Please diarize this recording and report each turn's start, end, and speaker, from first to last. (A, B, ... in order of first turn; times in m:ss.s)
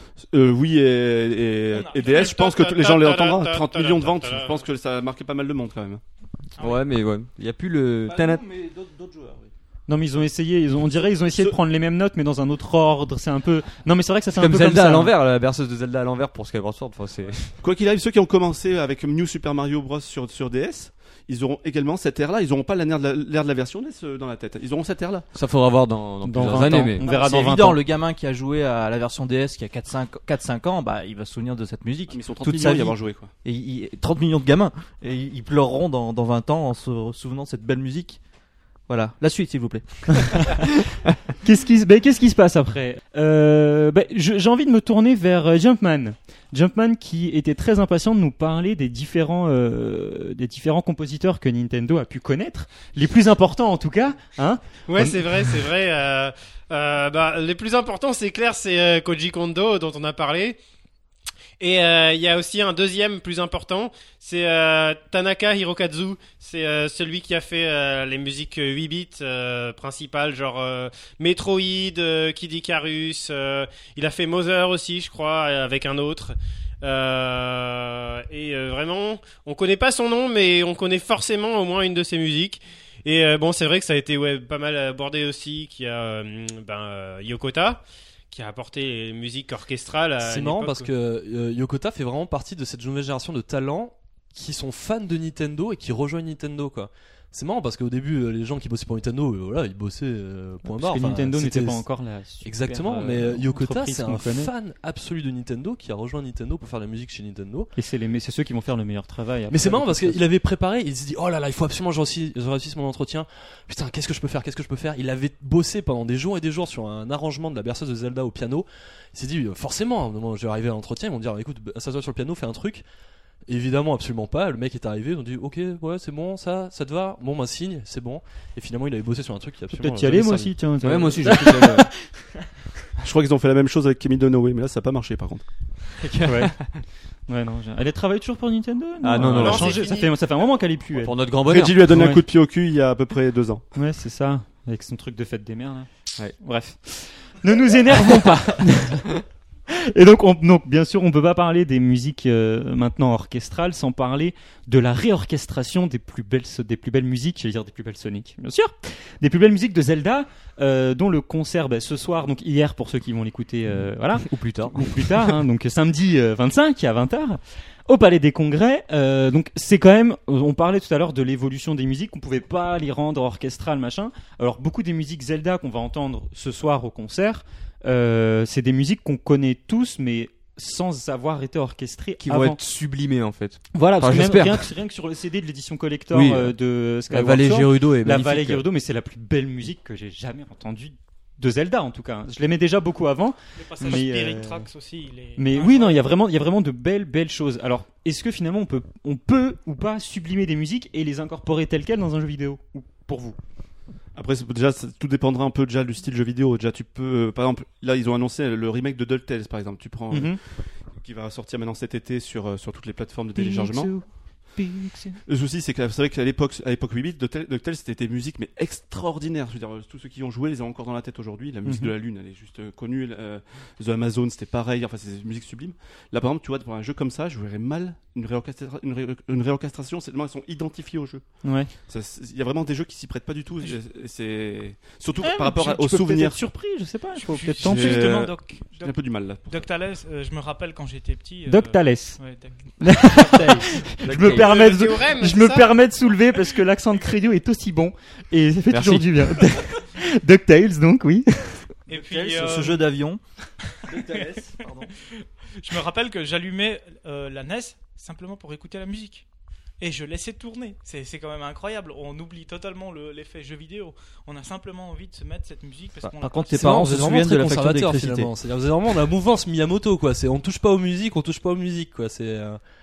0:00.2-0:06.0 A
0:01.7-0:02.4 B
0:02.0-0:04.6 C
0:06.6-0:06.9 B
0:06.6-0:08.4 D
0:08.1-0:09.5 E
0:09.9-0:15.1 F
0:14.3-0:17.6 D
0:17.6-0:25.3 A
0:25.3-0:27.0 D
0:26.2-0:27.8 F
0:27.0-0:38.2 E
0:32.1-0:33.3 A
0:38.9-0:40.6 E
0:41.4-0:55.4 F
0:54.9-1:00.6 C
1:01.6-1:30.9 C
1:30.2-1:41.9 G
1:40.6-1:44.5 F
1:42.4-1:47.7 G
1:47.8-1:50.2 F
1:49.5-2:02.8 G
2:03.5-2:10.7 G
2:09.8-2:11.8 F
2:10.8-2:11.9 D
2:13.0-2:15.4 A
2:16.0-2:16.8 D
2:16.2-2:16.7 F
2:17.3-2:21.1 F
2:19.0-2:20.0 D
2:19.3-2:20.1 C
2:21.0-2:21.9 D
2:21.4-2:23.6 A
2:21.9-2:22.2 F
2:23.7-2:29.1 F
2:29.7-3:02.6 F
2:44.2-2:45.3 D
3:02.2-3:04.7 D
3:03.7-3:14.7 F
3:06.1-3:06.5 D
3:07.1-3:08.6 D
3:13.6-3:16.1 B
3:15.4-3:23.4 F
3:24.1-3:30.4 A
3:30.1-3:30.4 F
3:31.0-3:33.9 A
3:33.3-3:35.2 F
3:35.2-3:51.3 A
3:41.6-3:41.9 F
3:51.4-3:51.7 F
3:51.9-3:56.4 A
3:55.2-3:58.1 F
3:57.2-4:02.7 B
3:57.6-3:59.7 A
4:01.4-4:02.2 F
4:02.8-4:11.7 F
4:04.0-4:04.5 D
4:04.2-4:05.7 C
4:08.7-4:09.6 D
4:11.9-4:12.9 B
4:11.9-4:13.2 E
4:13.9-4:14.9 E
4:13.9-4:15.1 B
4:15.6-4:19.2 B
4:19.8-4:26.7 B
4:26.2-4:28.3 E
4:26.5-4:32.6 G